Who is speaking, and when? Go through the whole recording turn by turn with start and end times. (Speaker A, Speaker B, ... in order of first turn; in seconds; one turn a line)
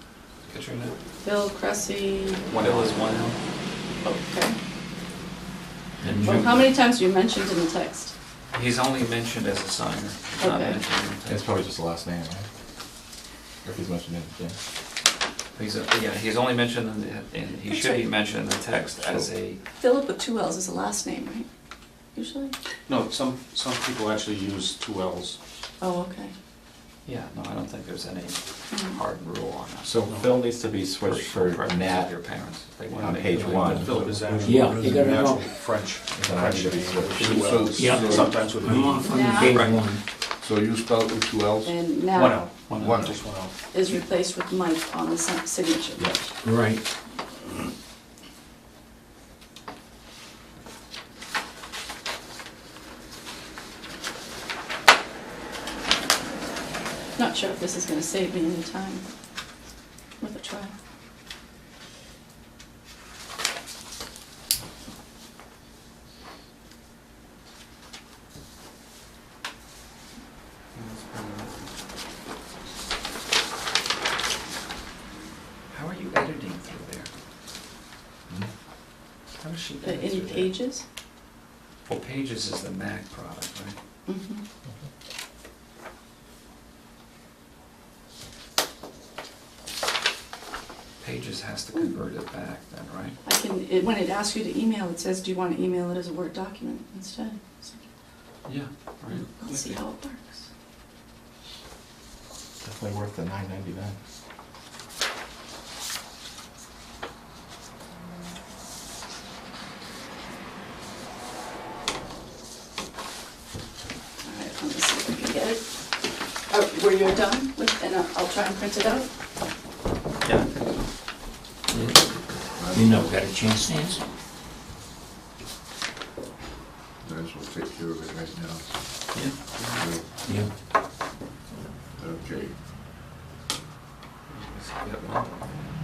Speaker A: 0.5-0.9
Speaker B: 1.2-2.6
Speaker C: 2.5-2.9
Speaker A: 2.5-3.4
Speaker B: 4.0-4.6
Speaker D: 6.0-6.7
Speaker B: 6.2-8.1
Speaker A: 8.5-11.4
Speaker B: 10.4-10.8
Speaker E: 11.2-12.4
Speaker E: 13.6-14.6
Speaker A: 15.5-19.6
Speaker B: 17.7-18.1
Speaker B: 19.8-21.4
Speaker B: 22.1-22.5
Speaker C: 22.9-25.4
Speaker B: 25.8-26.3
Speaker A: 27.1-30.1
Speaker B: 28.7-29.0
Speaker E: 29.8-32.1
Speaker C: 30.1-30.3
Speaker A: 31.0-33.9
Speaker E: 32.9-34.0
Speaker C: 33.2-39.3
Speaker D: 34.4-35.5
Speaker E: 36.1-37.6
Speaker F: 37.1-38.4
Speaker D: 37.7-40.0
Speaker B: 39.0-39.6
Speaker A: 39.4-39.9
Speaker F: 40.4-41.8
Speaker B: 41.6-42.5
Speaker C: 42.1-43.5
Speaker F: 42.7-43.3
Speaker B: 43.7-46.1
Speaker E: 46.0-46.2
Speaker D: 46.4-46.8
Speaker B: 57.2-59.0
Speaker B: 60.2-60.7
Speaker A: 70.7-71.6
Speaker A: 75.7-77.1
Speaker A: 79.4-80.5
Speaker B: 79.8-80.8
Speaker A: 81.9-83.8
Speaker B: 84.0-84.4
Speaker A: 91.0-93.2
Speaker B: 93.2-97.8
Speaker A: 98.5-99.8
Speaker B: 99.1-100.4
Speaker E: 102.6-104.0
Speaker B: 114.2-115.7
Speaker B: 116.5-119.1
Speaker A: 120.2-120.9
Speaker D: 121.7-122.0
Speaker A: 121.7-122.0
Speaker F: 122.5-123.1
Speaker D: 122.7-124.1
Speaker F: 127.0-128.6
Speaker A: 129.1-129.9
Speaker F: 129.7-130.0
Speaker D: 130.2-130.5
Speaker F: 132.0-132.5
Speaker A: 134.3-135.4